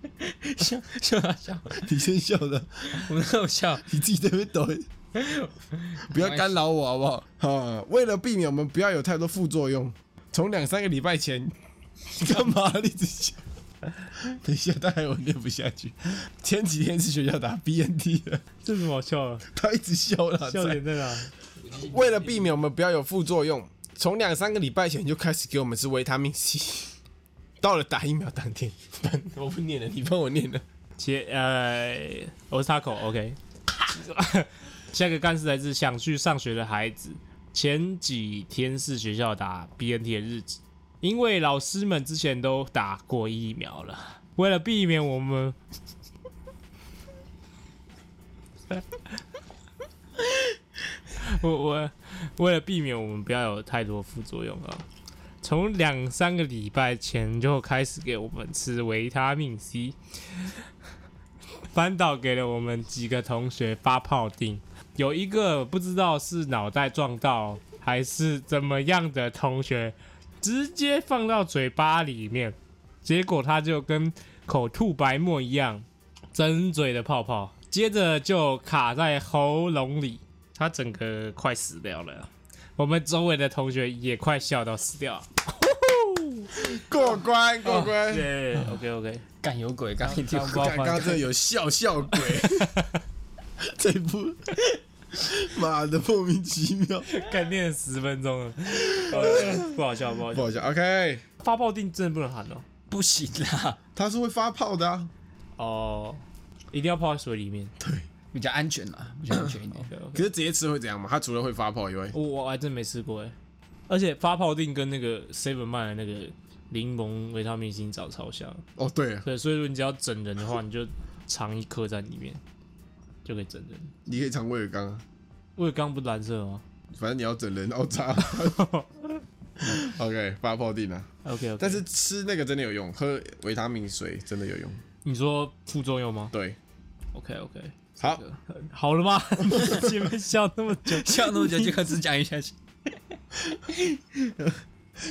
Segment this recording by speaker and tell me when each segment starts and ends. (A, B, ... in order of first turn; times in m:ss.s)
0:00.2-0:02.0 A
0:01.8-0:03.1 B
0:02.9-0:03.8 A
0:03.8-0:04.9 B
0:05.1-0:06.5 A
0:06.1-0:11.5 B
0:12.1-0:13.4 B
0:14.1-0:18.4 B
0:18.6-0:19.5 C
0:19.5-0:20.8 B
0:20.4-0:21.3 C
0:21.7-0:26.9 B
0:27.6-0:30.6 B
0:31.0-0:45.6 C
0:51.1-0:54.8 C
0:55.4-1:00.5 C
1:01.7-1:26.5 C
1:26.5-1:28.3 B
1:27.7-1:29.2 C
1:29.4-1:31.2 A
1:30.0-1:31.2 C
1:30.3-1:32.8 B
1:32.2-1:32.9 C
1:33.6-1:34.6 B
1:35.1-1:37.1 B
1:37.1-1:40.6 C
1:38.8-1:39.8 B
1:40.3-1:41.2 B
1:41.4-1:42.6 C
1:42.9-1:43.8 A
1:44.0-1:45.1 B
1:45.6-1:47.7 C
1:47.8-1:48.0 B
1:48.3-1:49.9 A
1:49.8-1:50.2 C
1:50.1-1:52.1 B
1:52.1-1:53.3 C
1:53.9-1:58.6 C
1:58.8-1:59.3 B
1:59.2-2:02.4 C
2:03.2-2:03.9 C
2:04.1-2:05.0 B
2:05.6-2:06.6 C
2:06.9-2:08.7 B
2:08.4-2:09.2 C
2:09.6-2:14.8 B
2:11.2-2:11.8 C
2:15.0-2:16.3 C
2:17.1-2:21.7 C
2:20.9-2:22.9 A
2:23.7-2:24.3 A